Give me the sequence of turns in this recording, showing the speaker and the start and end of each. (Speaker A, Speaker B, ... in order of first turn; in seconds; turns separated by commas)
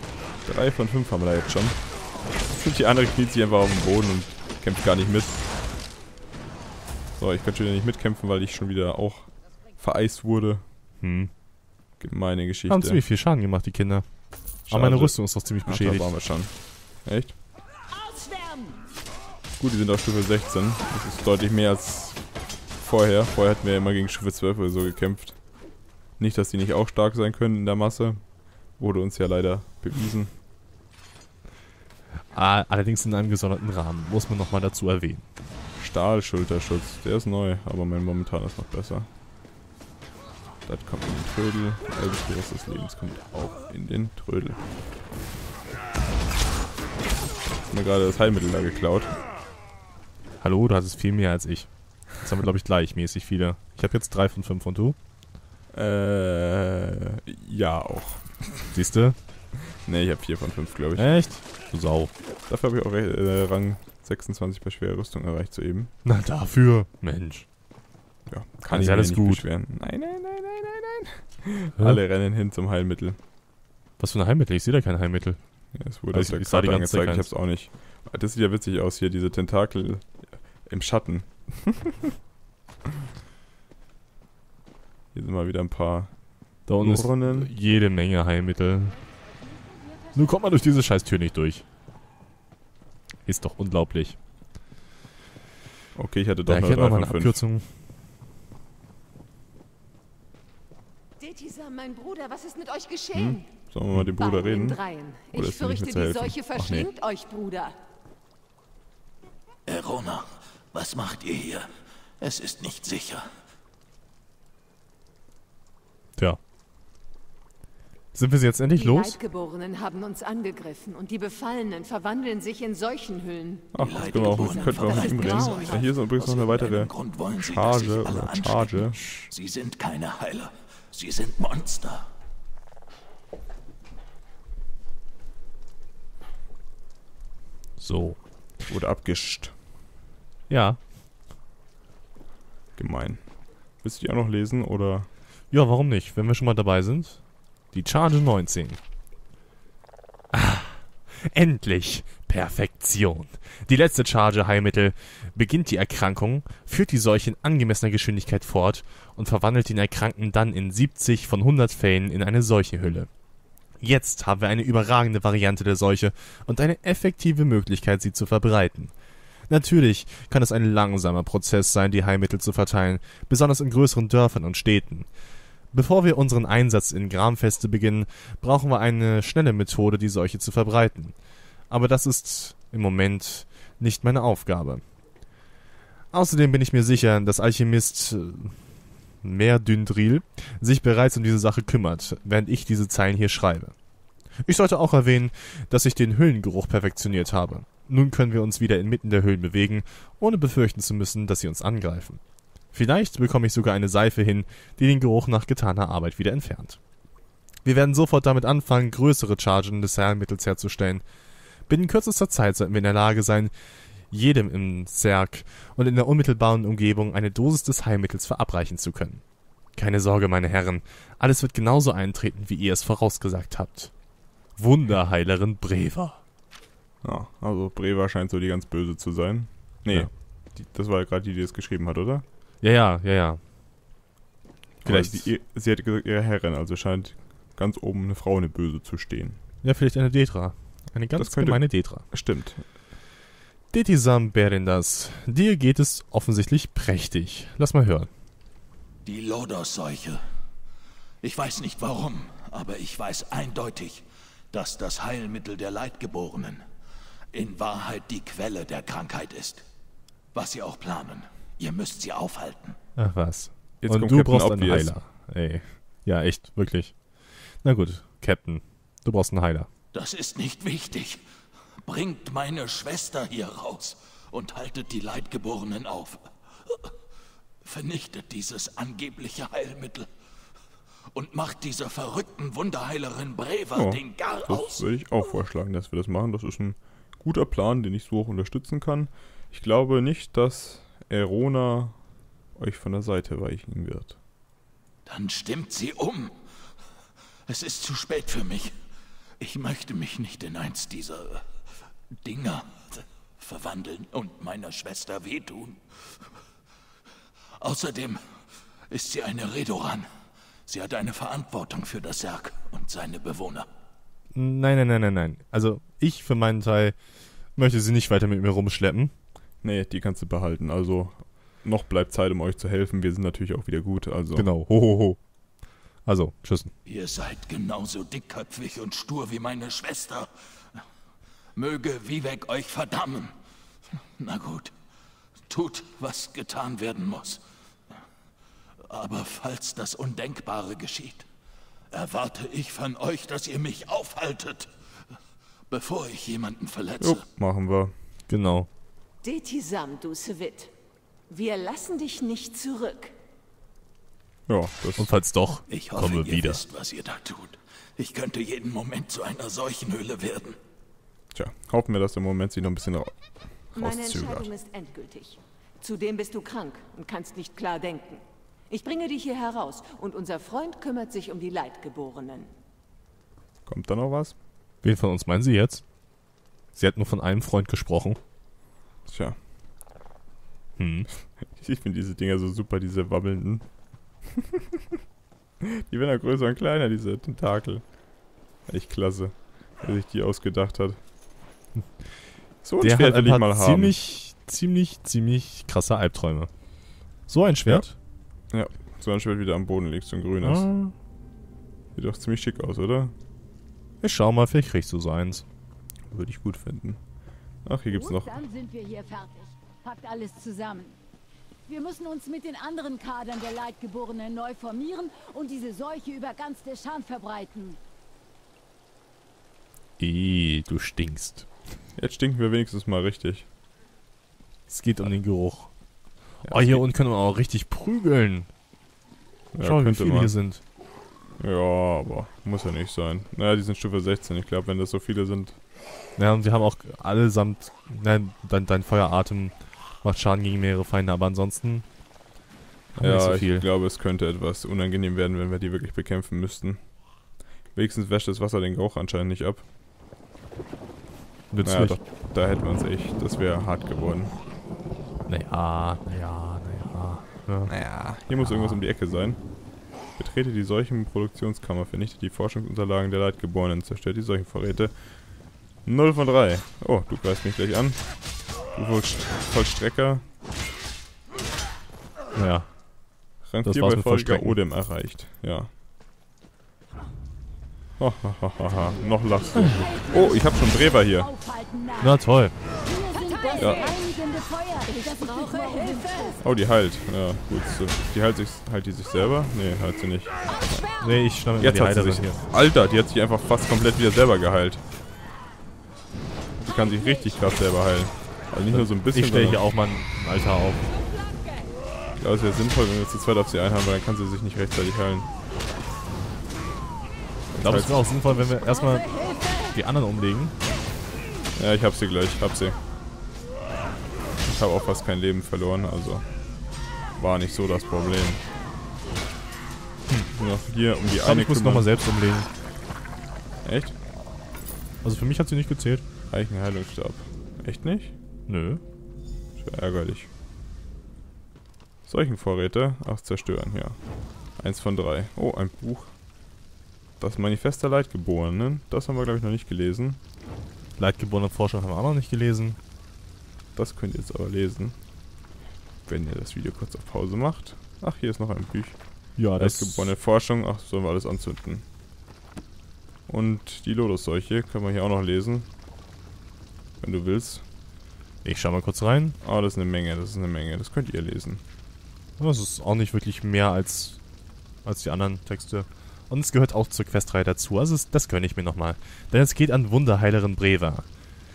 Speaker A: 0.4-1.8, Speaker A: 2.5-5.4, Speaker A: 7.2-10.6, Speaker B: 11.0-11.3, Speaker A: 12.0-13.0, Speaker B: 12.7-16.2, Speaker A: 14.7-17.4, Speaker A: 19.5-25.4, Speaker A: 26.2-30.3, Speaker B: 32.3-35.2, Speaker A: 35.8-39.1, Speaker A: 40.6-44.6, Speaker A: 47.6-49.2, Speaker B: 50.4-55.0, Speaker A: 55.7-58.7, Speaker B: 58.7-59.2, Speaker A: 59.7-61.1, Speaker B: 61.0-62.1, Speaker A: 62.4-65.9, Speaker B: 66.0-67.5, Speaker A: 68.3-73.2, Speaker B: 68.7-69.5, Speaker B: 74.0-75.4, Speaker A: 75.7-82.1, Speaker B: 76.1-77.3, Speaker A: 85.1-86.1, Speaker B: 86.7-89.0, Speaker A: 86.8-87.5, Speaker B: 90.1-91.6, Speaker B: 93.2-94.2, Speaker A: 95.9-97.4, Speaker B: 96.5-97.7, Speaker C: 101.2-103.5, Speaker A: 103.1-104.8, Speaker C: 104.0-107.7, Speaker A: 105.3-106.9, Speaker D: 109.7-111.7, Speaker D: 112.2-113.2, Speaker B: 118.1-119.2, Speaker C: 118.8-125.9, Speaker A: 123.7-129.3, Speaker D: 123.8-132.0, Speaker B: 137.8-138.2, Speaker A: 138.7-139.5, Speaker B: 140.5-140.8, Speaker A: 142.8-143.3, Speaker A: 143.8-145.1, Speaker B: 145.5-148.8, Speaker B: 150.3-163.1, Speaker B: 163.8-168.9, Speaker B: 169.5-175.1, Speaker B: 175.7-181.2, Speaker B: 181.7-184.8, Speaker B: 186.1-188.7, Speaker B: 189.2-193.7, Speaker B: 194.4-202.2, Speaker B: 202.7-206.8, Speaker B: 207.6-211.0, Speaker B: 211.7-213.5, Speaker B: 214.1-219.2, Speaker B: 219.7-223.9, Speaker B: 224.6-226.2, Speaker A: 227.0-232.2, Speaker B: 232.6-233.4, Speaker A: 234.8-239.4, Speaker B: 234.8-235.3, Speaker B: 239.6-242.0, Speaker A: 241.1-242.6, Speaker B: 243.7-248.1, Speaker D: 249.0-250.2, Speaker D: 251.2-256.6, Speaker D: 257.3-259.6, Speaker D: 260.3-262.8, Speaker B: 263.0-269.7, Speaker A: 263.8-264.9, Speaker D: 269.9-271.2, Speaker D: 271.8-276.9, Speaker D: 277.6-280.1, Speaker D: 281.1-284.8, Speaker A: 283.7-292.0, Speaker A: 292.5-294.2, Speaker D: 295.0-296.3, Speaker D: 297.5-298.7, Speaker D: 299.4-301.5, Speaker D: 302.2-306.2, Speaker D: 307.6-308.2, Speaker D: 308.9-310.1, Speaker D: 310.7-313.7, Speaker B: 314.3-316.9, Speaker B: 317.5-319.1, Speaker A: 319.6-324.5, Speaker B: 324.4-325.2, Speaker B: 326.0-326.7, Speaker D: 326.9-330.8, Speaker D: 331.5-333.3, Speaker D: 334.2-334.7, Speaker D: 335.5-337.4, Speaker D: 338.9-341.2, Speaker D: 341.9-344.7, Speaker D: 345.7-347.2, Speaker A: 347.0-347.9, Speaker B: 348.3-348.7, Speaker C: 349.2-350.7, Speaker C: 351.3-353.1, Speaker A: 354.5-355.1, Speaker B: 355.0-356.6, Speaker D: 355.7-360.6, Speaker A: 361.3-364.5, Speaker C: 363.7-372.5, Speaker A: 373.6-374.4, Speaker B: 374.8-375.8, Speaker B: 376.7-378.2, Speaker A: 379.0-379.4, Speaker B: 380.8-381.1, Speaker A: 381.4-383.7, Speaker A: 385.6-388.0, Speaker A: 388.7-391.0, Speaker A: 392.6-393.9, Speaker B: 392.8-396.5, Speaker B: 397.3-397.9, Speaker A: 398.5-400.7, Speaker B: 400.4-400.9, Speaker A: 401.9-403.1, Speaker B: 404.0-405.4, Speaker A: 406.1-407.0, Speaker A: 407.6-408.3, Speaker E: 407.9-411.0, Speaker E: 411.7-417.8, Speaker B: 420.0-421.5, Speaker A: 421.9-423.5, Speaker B: 424.7-425.7, Speaker B: 426.4-428.5, Speaker A: 426.4-426.9, Speaker A: 429.5-430.4, Speaker B: 429.6-430.6, Speaker A: 431.4-435.6, Speaker B: 436.2-441.8, Speaker B: 442.9-443.7, Speaker A: 442.9-447.0, Speaker A: 447.7-449.6, Speaker B: 451.5-452.0, Speaker A: 451.6-454.4, Speaker B: 455.3-458.8, Speaker A: 457.7-459.4, Speaker A: 460.1-465.2, Speaker A: 465.8-470.2, Speaker B: 472.4-472.7, Speaker A: 473.4-475.7, Speaker B: 473.6-474.6, Speaker A: 478.0-481.3, Speaker B: 479.6-479.8, Speaker E: 479.7-482.1, Speaker B: 482.0-482.5, Speaker E: 482.8-486.4, Speaker C: 483.2-483.9, Speaker A: 483.6-483.9, Speaker C: 484.9-486.4, Speaker A: 486.4-490.9, Speaker B: 491.0-492.4, Speaker A: 491.6-494.8, Speaker A: 496.6-499.6, Speaker B: 498.7-500.9, Speaker A: 502.1-505.3, Speaker A: 507.5-508.0, Speaker B: 507.6-510.5, Speaker E: 508.2-509.5, Speaker A: 511.5-512.8, Speaker A: 514.4-516.2, Speaker A: 517.1-518.4, Speaker A: 520.3-521.9, Speaker B: 521.2-522.5, Speaker A: 523.6-524.0, Speaker B: 525.0-526.0, Speaker A: 526.3-528.1, Speaker B: 528.5-528.8, Speaker A: 529.6-530.3, Speaker A: 532.0-534.0, Speaker A: 534.5-536.2, Speaker A: 537.2-540.2, Speaker B: 541.0-542.8, Speaker A: 543.7-545.0, Speaker A: 546.0-551.8, Speaker B: 549.4-550.1, Speaker A: 553.3-555.7, Speaker A: 557.0-557.6, Speaker B: 558.4-559.4, Speaker A: 559.4-561.6, Speaker B: 562.4-564.2, Speaker B: 564.8-571.0